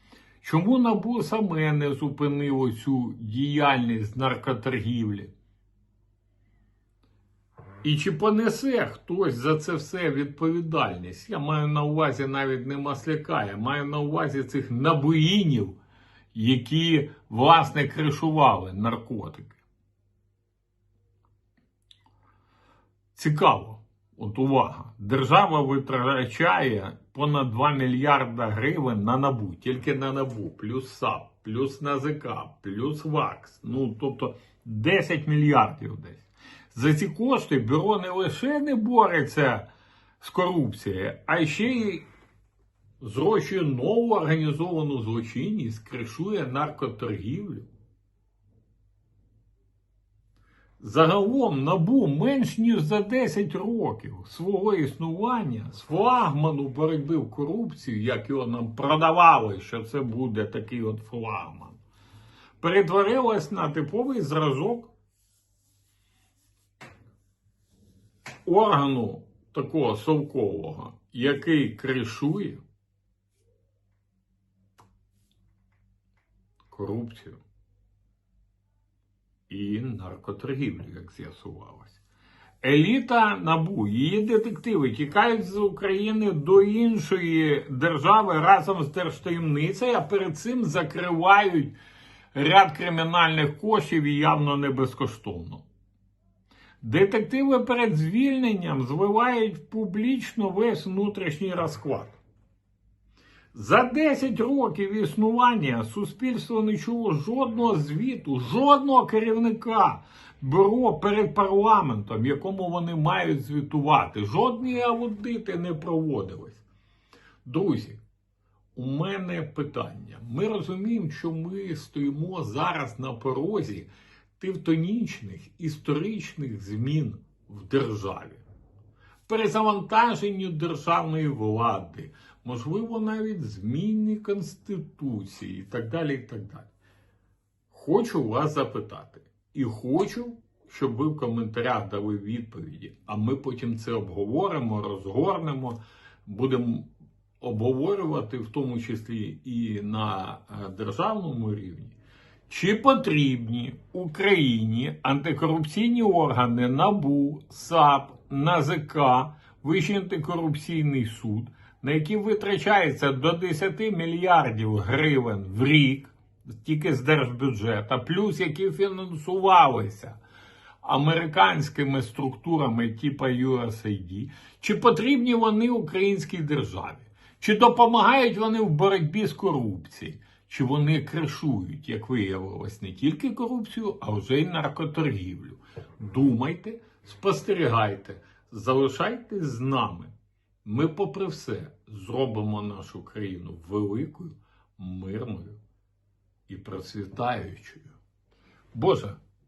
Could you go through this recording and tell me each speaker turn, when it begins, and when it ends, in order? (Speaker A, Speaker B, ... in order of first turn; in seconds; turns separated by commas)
Speaker A: 0.4-5.3, Speaker A: 7.8-15.8, Speaker A: 16.3-19.6, Speaker A: 23.1-39.7, Speaker A: 40.2-42.0, Speaker A: 43.0-47.7, Speaker A: 50.8-61.8, Speaker A: 62.6-64.9, Speaker A: 68.5-72.6, Speaker A: 76.7-77.4, Speaker A: 79.5-82.0, Speaker A: 82.6-91.7, Speaker A: 92.3-95.6, Speaker A: 96.8-102.2, Speaker A: 103.5-116.6, Speaker A: 117.4-118.0, Speaker A: 118.7-128.4, Speaker A: 129.3-136.7, Speaker A: 137.7-146.9, Speaker A: 147.4-151.9, Speaker A: 152.5-170.2, Speaker A: 170.8-190.1, Speaker A: 190.6-195.6, Speaker A: 196.5-197.9, Speaker A: 198.7-199.2